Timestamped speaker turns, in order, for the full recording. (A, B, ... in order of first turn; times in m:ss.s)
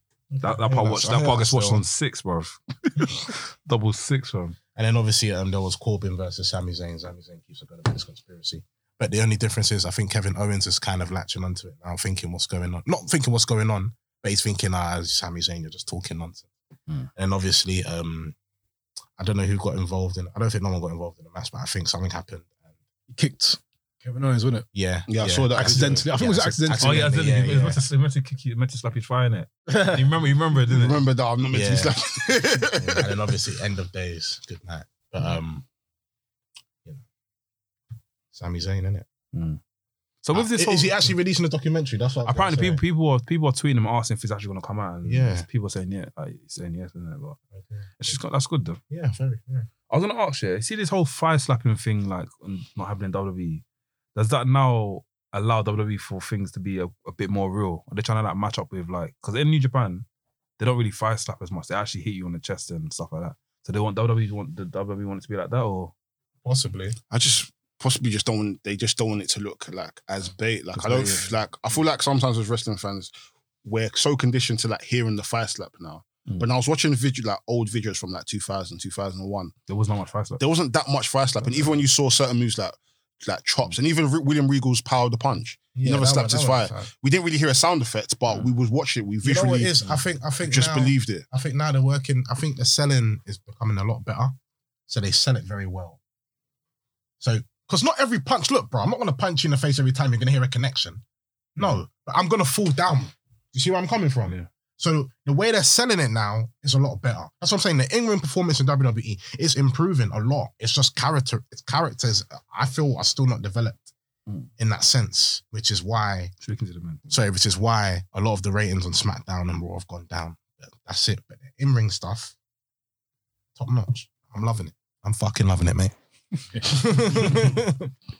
0:00.3-0:01.8 A
0:00.4-0:04.6 B
0:04.8-0:16.5 A
0:17.2-0:18.4 A
0:19.2-0:22.6 A
0:23.1-0:24.7 C
0:24.7-0:27.8 A
0:25.1-0:26.1 D
0:25.5-0:27.1 C
0:26.8-0:31.0 B
0:29.7-0:30.0 C
0:30.7-0:33.2 D
0:31.5-0:32.0 A
0:32.8-0:35.6 A
0:38.3-0:39.1 A
0:39.3-0:39.6 B
0:40.2-0:41.1 B
0:40.3-0:42.8 A
0:42.3-0:47.4 B
0:45.0-0:45.5 A
0:47.6-0:48.2 A
0:48.0-0:48.8 B
0:48.9-0:49.7 A
0:49.9-0:53.6 B
0:54.2-1:00.1 B
1:00.6-1:05.9 B
1:06.4-1:07.0 A
1:07.1-1:13.1 D
1:10.8-1:11.3 B
1:13.6-1:19.5 D
1:19.7-1:20.4 B
1:20.4-1:31.2 D
1:21.4-1:21.7 B
1:25.8-1:26.9 A
1:29.2-1:34.4 A
1:34.9-1:36.0 A
1:37.2-1:41.0 A
1:41.6-1:53.9 A
1:54.6-1:56.3 A
1:56.4-1:57.1 B
1:57.1-2:02.4 A
2:03.6-2:05.9 A
2:06.6-2:07.9 A
2:07.2-2:07.5 B